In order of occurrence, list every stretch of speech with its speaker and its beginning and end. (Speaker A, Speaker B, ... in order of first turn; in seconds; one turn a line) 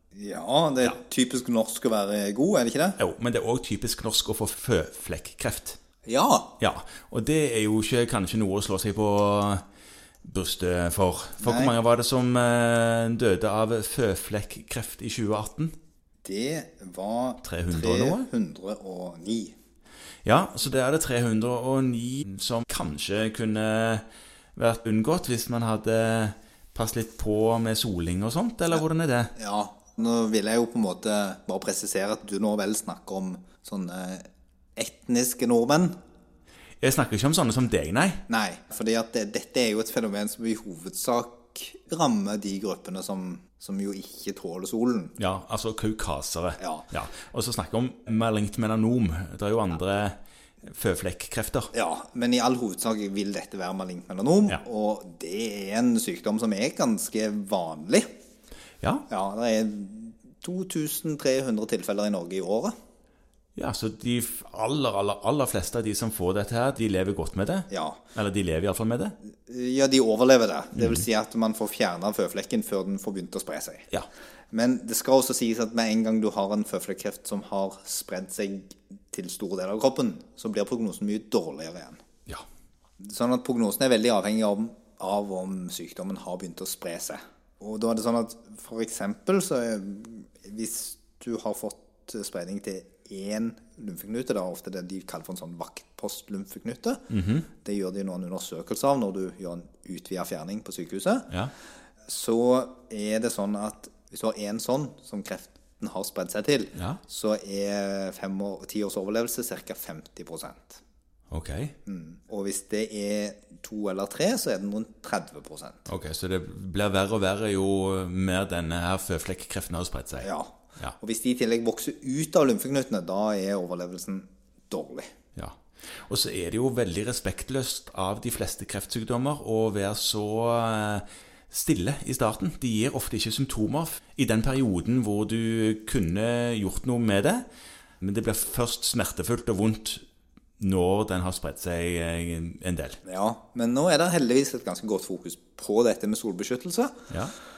Speaker A: 0.1-3.0
Speaker B: 3.0-5.8
Speaker A: 6.1-6.5
Speaker B: 6.6-9.6
Speaker B: 10.2-15.7
Speaker A: 11.4-11.7
Speaker A: 16.2-19.6
Speaker B: 17.4-18.2
Speaker B: 20.2-24.0
Speaker B: 24.6-29.3
Speaker A: 29.4-36.0
Speaker B: 36.8-38.2
Speaker A: 38.3-45.2
Speaker B: 45.2-51.7
Speaker A: 46.6-46.9
Speaker A: 51.7-58.1
Speaker A: 59.1-62.7
Speaker B: 63.6-69.2
Speaker A: 67.7-68.0
Speaker A: 69.4-73.9
Speaker A: 74.5-82.0
Speaker A: 83.0-97.1
Speaker B: 97.1-97.5
Speaker A: 97.6-101.3
Speaker A: 102.1-110.8
Speaker B: 111.3-111.7
Speaker A: 111.9-115.9
Speaker B: 115.9-120.3
Speaker A: 120.2-125.1
Speaker B: 125.4-137.4
Speaker B: 138.0-140.0
Speaker B: 140.6-143.0
Speaker A: 143.0-147.0